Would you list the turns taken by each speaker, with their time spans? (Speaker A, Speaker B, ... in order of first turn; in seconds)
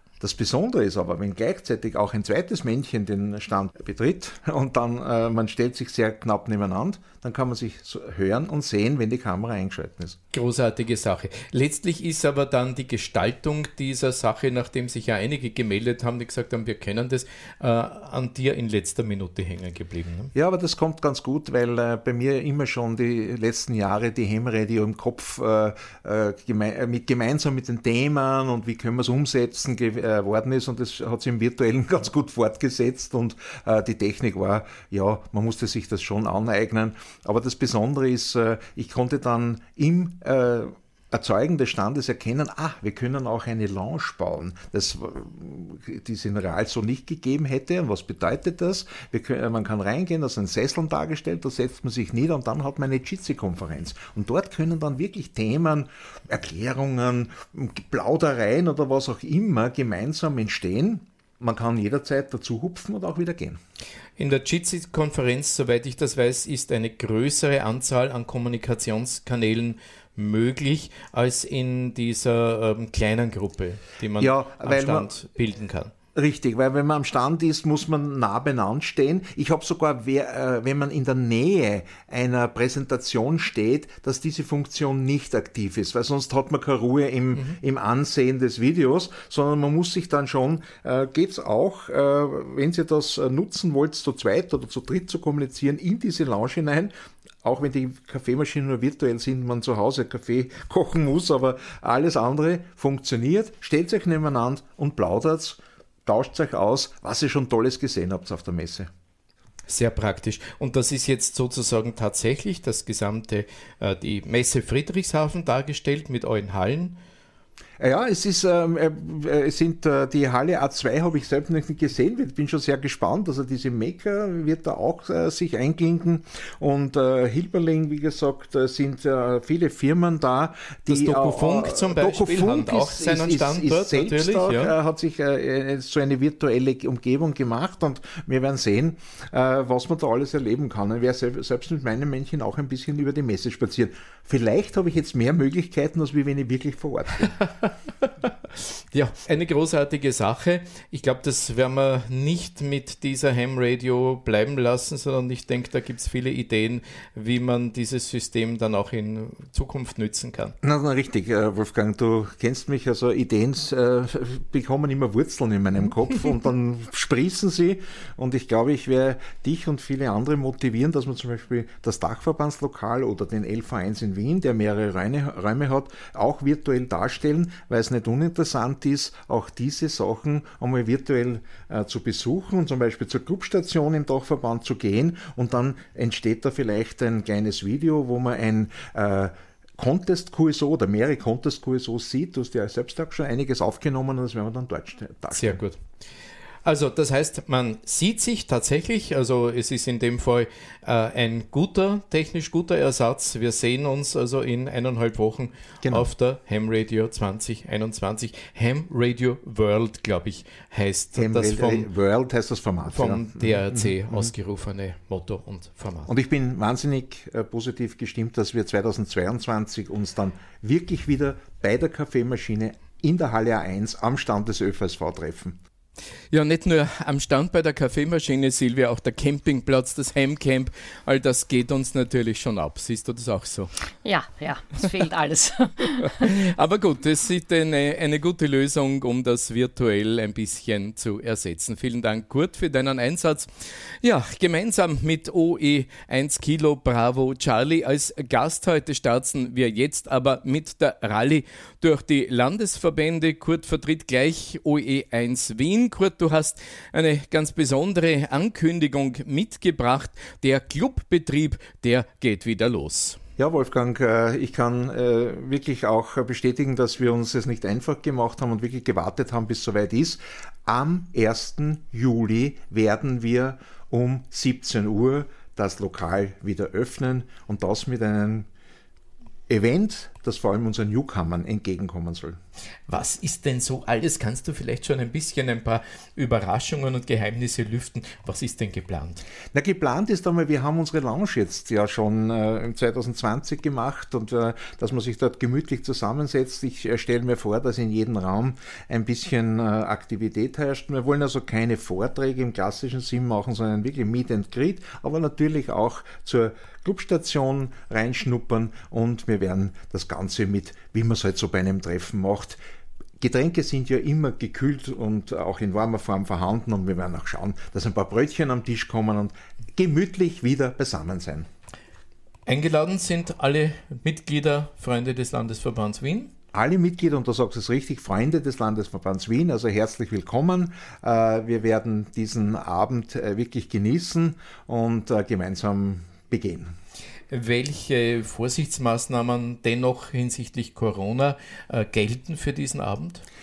Speaker A: 0.2-10.2, 20.3-63.6, 74.2-75.1, 76.1-108.9, 117.8-147.3, 160.6-195.6, 205.8-206.1, 211.2-214.3, 216.1-225.6, 263.4-278.5, 279.5-282.4, 289.5-312.6, 313.2-321.5, 326.5-336.7
Speaker B: 10.3-20.3, 64.2-75.9, 109.7-117.0, 130.9-134.7, 147.4-147.7, 148.9-160.6, 195.3-195.8, 196.6-211.9, 212.9-216.1, 226.3-233.7, 236.2-263.2, 282.9-289.2, 322.5-326.3, 337.3-343.2
Speaker C: 234.0-236.3